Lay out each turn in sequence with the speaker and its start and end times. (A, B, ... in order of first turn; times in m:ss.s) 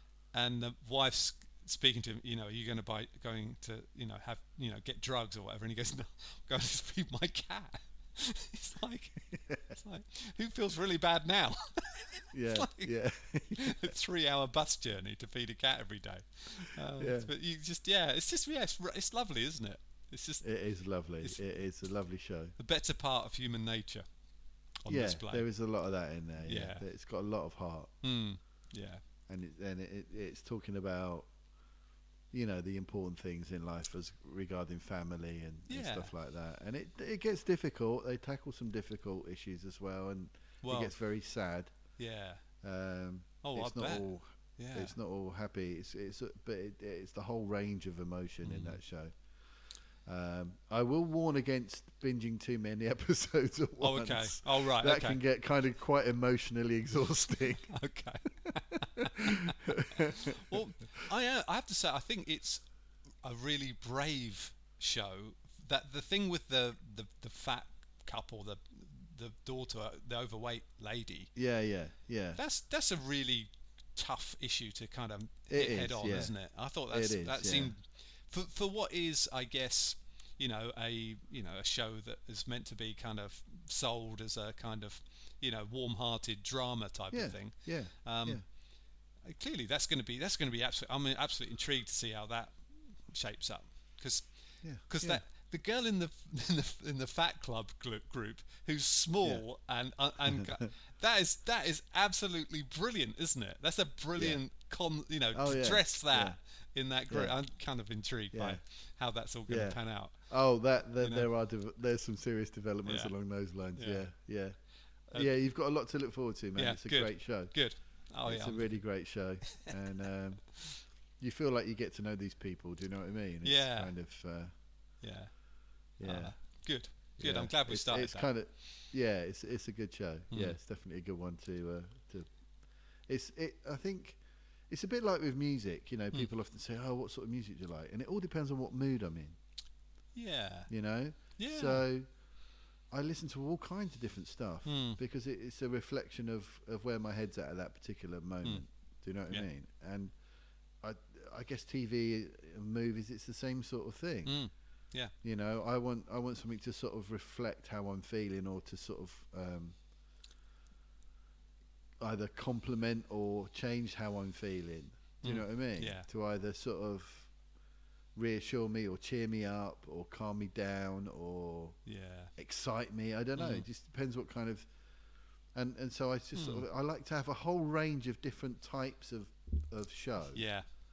0:00.3-0:12.9 A
0:12.3-0:13.9 B
0:13.5-0:20.4 A
0:17.0-0:17.3 B
0:20.4-0:22.5 B
0:22.6-0:24.0 A
0:24.8-0:25.5 A
0:24.9-0:27.9 B
0:26.4-0:26.8 A
0:28.0-0:29.0 A
0:29.3-0:31.3 B
0:32.3-0:41.7 B
0:35.7-0:36.1 A
0:40.6-0:40.9 A
0:42.0-0:42.4 A
0:42.6-0:49.1 B
0:43.4-0:44.9 A
0:48.4-0:48.8 A
0:50.0-0:57.7 B
0:53.8-0:55.2 A
0:57.7-1:02.6 A
0:59.0-1:00.6 B
1:03.2-1:11.3 A
1:11.3-1:12.4 B
1:12.4-1:28.4 A
1:15.5-1:16.3 B
1:16.9-1:17.7 B
1:27.1-1:28.4 B
1:29.2-1:32.6 A
1:33.1-1:34.3 A
1:34.6-1:35.2 B
1:34.9-1:50.2 A
1:44.2-1:44.4 B
1:45.3-1:46.4 B
1:47.1-1:47.3 B
1:48.3-1:48.6 B
1:49.5-1:54.6 B
1:51.0-1:51.3 A
1:52.8-1:53.1 A
1:53.8-1:54.0 A
1:55.1-1:57.5 B
1:56.6-1:58.8 A
1:58.2-2:00.5 B
2:01.2-2:04.5 B
2:03.4-2:03.9 A
2:05.0-2:05.3 A
2:06.0-2:06.3 B
2:06.0-2:08.3 A
2:07.2-2:12.3 B
2:10.3-2:10.6 A
2:13.1-2:19.4 B
2:20.1-2:20.7 A
2:20.7-2:22.1 B
2:21.4-2:21.8 A
2:22.9-2:30.1 B
2:24.6-2:25.0 A
2:30.8-2:34.4 B
2:34.2-2:35.1 A
2:35.2-2:39.8 B
2:42.0-2:47.3 B
2:45.2-2:46.1 A
2:48.1-2:51.8 B
2:51.8-2:52.3 A
2:52.4-2:54.7 B
2:53.4-2:53.6 A
2:55.5-3:00.4 B
2:56.3-2:56.6 A
3:00.3-3:00.6 A